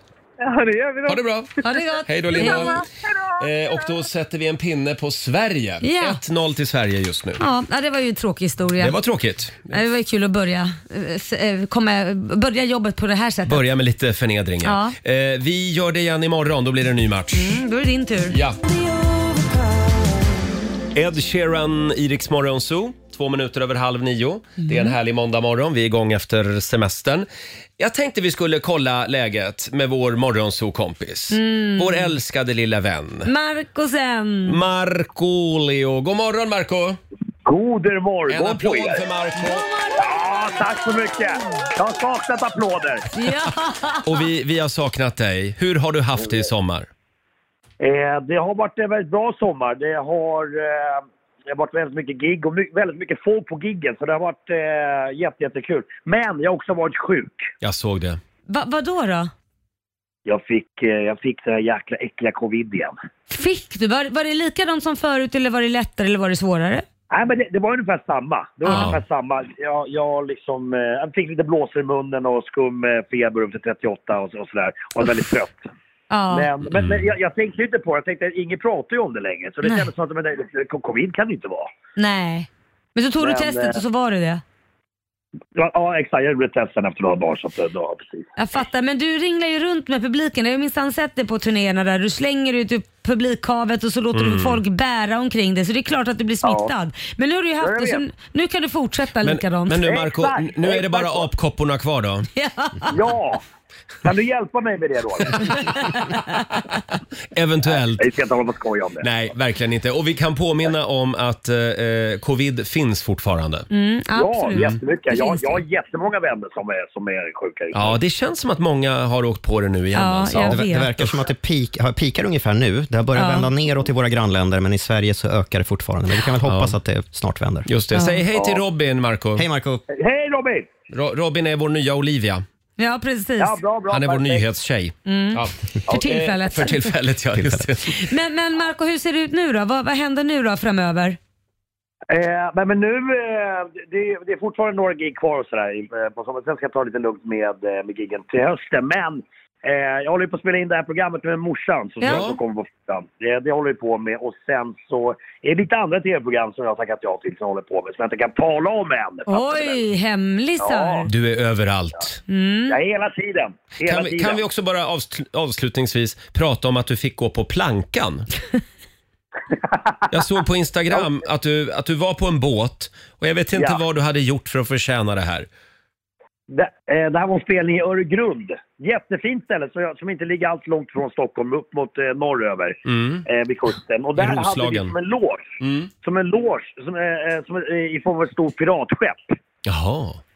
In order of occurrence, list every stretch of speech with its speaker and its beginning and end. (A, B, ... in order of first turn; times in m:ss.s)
0:00.4-0:04.0 A
0:01.0-0:02.8 B
0:01.6-0:02.8 C
0:03.4-0:07.4 B
0:05.8-0:06.2 C
0:07.4-0:09.0 C
0:08.8-0:09.8 B
0:09.7-0:13.6 C
0:13.4-0:17.6 B
0:14.6-0:15.0 C
0:17.3-0:18.4 C
0:18.3-0:18.6 B
0:20.9-0:27.3 B
0:24.6-0:24.9 C
0:27.8-0:33.3 B
0:31.3-0:32.1 C
0:33.2-0:34.6 C
0:34.4-0:37.0 B
0:37.4-0:39.0 D
0:38.3-0:39.6 B
0:39.4-0:40.6 C
0:40.0-0:43.0 D
0:43.1-0:44.1 C
0:44.0-0:46.9 B
0:47.8-0:57.5 D
0:57.6-0:58.2 B
0:58.5-0:59.3 C
1:00.2-1:02.9 D
1:03.3-1:06.8 C
1:07.1-1:15.6 D
1:08.6-1:09.0 B
1:08.6-1:08.9 C
1:16.1-1:16.5 C
1:16.3-1:21.7 D
1:22.0-1:24.4 C
1:23.2-1:23.8 D
1:25.6-1:28.3 D
1:28.4-1:39.8 C
1:34.1-1:34.6 B
1:36.4-1:36.7 D
1:37.6-1:38.0 D
1:39.2-1:42.3 B
1:39.8-1:41.3 D
1:42.4-1:42.9 C
1:42.9-1:43.4 D
1:44.0-1:45.6 D
1:45.5-1:46.4 C
1:47.3-1:48.1 B
1:48.0-1:49.1 D
1:49.0-1:53.7 B
1:53.7-1:55.6 C
1:54.1-1:58.0 D
1:57.7-2:01.2 B
1:59.9-2:00.9 C
2:00.4-2:07.7 E
2:03.1-2:03.5 C
2:06.4-2:06.7 B
2:07.7-2:09.4 B
2:07.9-2:08.2 C
2:09.4-2:09.8 E
2:09.9-2:10.7 D
2:10.9-2:12.4 B
2:12.8-2:13.6 C
2:13.4-2:14.4 D
2:13.9-2:18.0 B
2:15.0-2:16.9 C
2:17.3-2:17.7 E
2:17.9-2:21.2 C
2:22.1-2:39.8 D
2:32.0-2:32.4 B
2:39.3-2:41.1 C
2:40.6-2:41.0 D
2:41.0-2:42.2 B
2:42.3-2:42.8 C
2:42.7-2:44.4 D
2:43.8-2:48.3 B
2:50.1-2:55.5 B
2:56.5-3:09.3 D
3:02.8-3:03.3 B
3:04.2-3:04.9 B
3:05.6-3:05.9 B
3:09.6-3:10.2 B